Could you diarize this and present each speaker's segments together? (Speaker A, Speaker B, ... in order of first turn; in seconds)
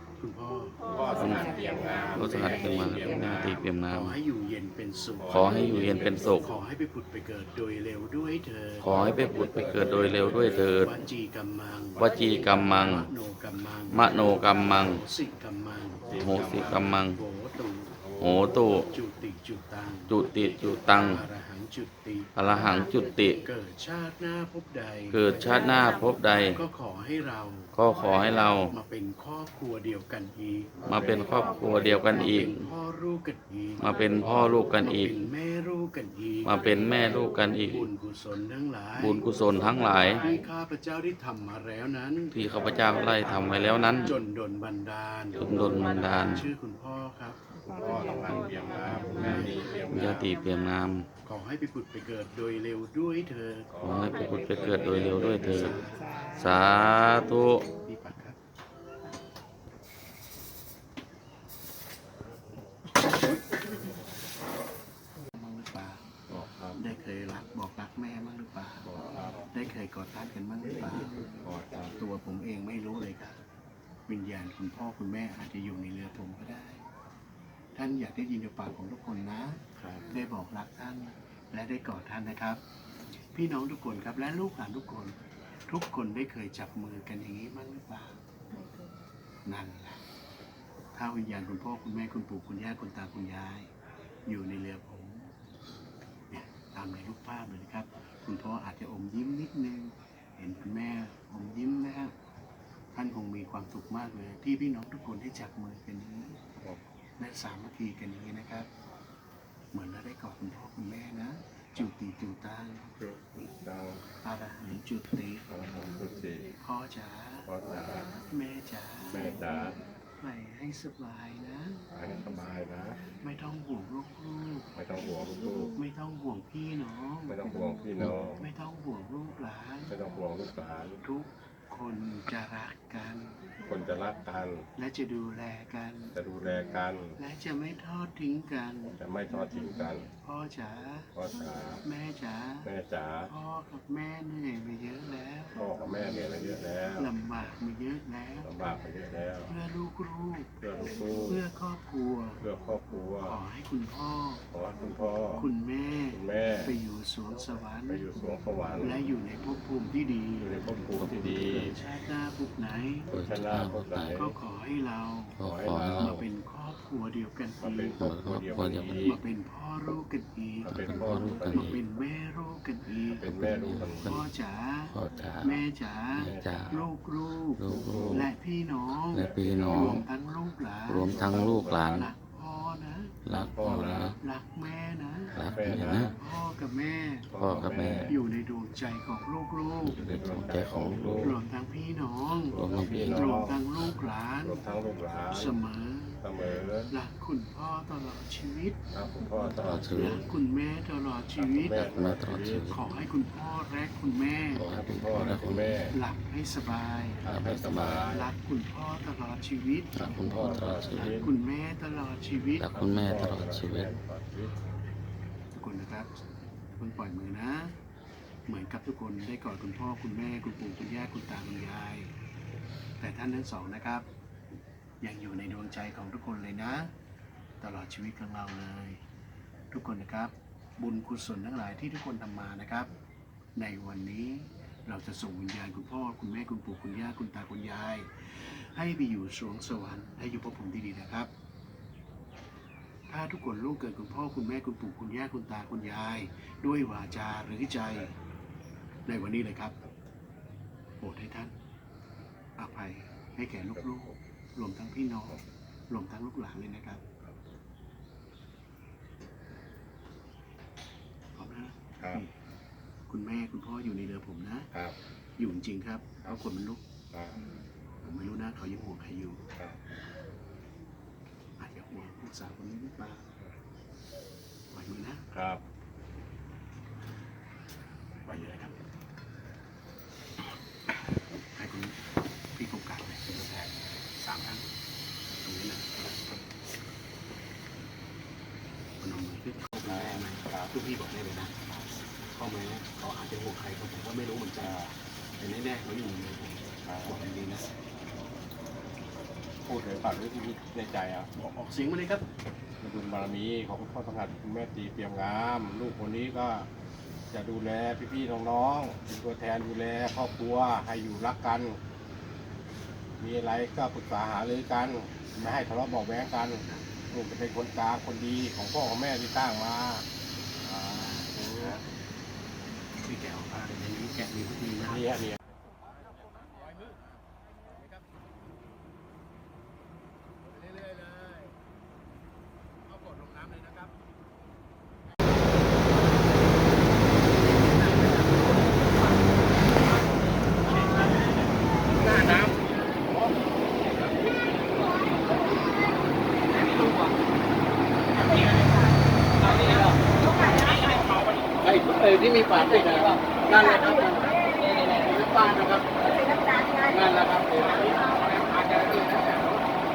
Speaker A: 0.2-1.0, 2.2-18.0, 18.6-30.9, 32.0-33.9, 34.8-47.4, 51.2-53.8, 55.1-56.5, 57.7-58.4, 65.3-66.1, 66.7-71.2, 71.9-73.4, 74.1-76.8, 77.8-82.6, 83.3-85.2, 85.7-88.2, 89.4-90.0, 90.9-93.7, 94.2-95.3, 96.3-102.1, 102.9-106.4, 107.2-108.7, 109.7-113.0, 114.2-115.5, 116.6-117.5, 118.1-119.5, 120.2-121.9, 123.1-124.7, 125.8-127.5, 128.1-129.9, 131.0-133.5, 134.8-136.2, 137.2-139.0, 140.2-141.1, 141.8-142.7, 143.3-145.7, 147.0-148.5, 149.5-150.6, 151.2-152.4, 153.2-154.4, 155.3-158.1, 158.8-160.5, 161.5-163.1, 164.1-165.4, 166.0-168.0, 168.9-185.4, 186.1-187.3, 188.1-190.0, 191.2-194.6, 195.3-196.2, 196.9-198.8, 199.9-204.7, 205.9-212.7, 215.5-217.8, 218.5-222.1, 223.0-224.1, 225.0-226.9, 227.6-229.0, 229.7-232.9, 233.6-241.3, 243.1-248.1, 249.1-249.8, 251.0-251.5, 252.6-257.1, 261.3-262.3, 263.1-264.7, 265.4-266.8, 268.0-269.4, 271.6-273.3, 274.7-275.3, 278.3-278.7, 281.5-282.0, 282.6-284.7, 285.3-286.1, 289.0-294.8, 295.4-297.7, 301.3-302.2, 320.8-321.8, 323.0-325.1
Speaker B: 0.9-3.6, 5.2-6.1, 9.4-10.4, 12.0-12.2, 16.1-16.8, 18.0-18.5, 30.9-31.9, 47.6-50.3, 53.8-55.7, 66.3-66.8, 68.9-69.4, 71.3-71.9, 113.0-114.0, 115.5-116.5, 117.5-118.2, 119.1-119.8, 121.9-123.0, 124.8-125.8, 127.3-128.4, 129.9-131.0, 133.6-134.6, 136.2-137.2, 138.9-140.1, 141.2-141.8, 142.7-143.3, 145.6-147.1, 148.4-149.5, 150.6-151.4, 152.4-153.4, 154.5-155.5, 156.1-156.8, 157.9-159.0, 160.4-161.8, 163.1-164.3, 165.4-166.2, 167.6-169.2, 170.7-171.7, 173.1-174.2, 175.1-175.4, 176.2-176.7, 177.7-178.3, 179.2-180.0, 181.1-182.0, 183.5-184.1, 185.3-186.2, 187.3-188.1, 190.0-191.3, 192.6-193.6, 194.4-195.6, 196.2-196.9, 198.9-200.1, 201.4-202.7, 204.7-205.9, 207.2-208.3, 210.2-211.3, 212.7-214.6, 275.3-275.6, 289.8-290.7, 294.6-294.9, 296.9-297.2, 299.6-301.3, 302.8-306.7, 307.3-311.8, 313.2-320.1, 320.6-321.8, 324.9-325.3, 351.8-354.0, 355.0-356.0, 356.8-359.5
Speaker C: 1.2-4.2, 5.3-6.5, 8.8-10.9, 11.9-13.1, 13.9-15.0, 16.1-17.2, 18.2-18.9, 20.1-21.2, 22.4-23.4, 25.1-26.6, 27.7-28.7, 30.8-32.7, 33.8-35.3, 36.4-37.9, 39.0-40.2, 42.3-44.1, 45.4-46.5, 49.0-51.1, 53.8-57.6, 160.9-161.8, 163.1-164.3, 165.4-166.2, 168.0-169.2, 170.7-171.8, 173.2-174.3, 174.9-175.6, 176.1-176.8, 177.4-178.3, 179.1-180.1, 180.9-182.1, 183.2-184.2, 185.3-186.1, 187.3-188.1, 189.8-191.4, 192.4-193.5, 199.6-200.2, 201.8-202.9, 204.6-205.9, 207.2-208.1, 209.9-211.3, 212.6-213.9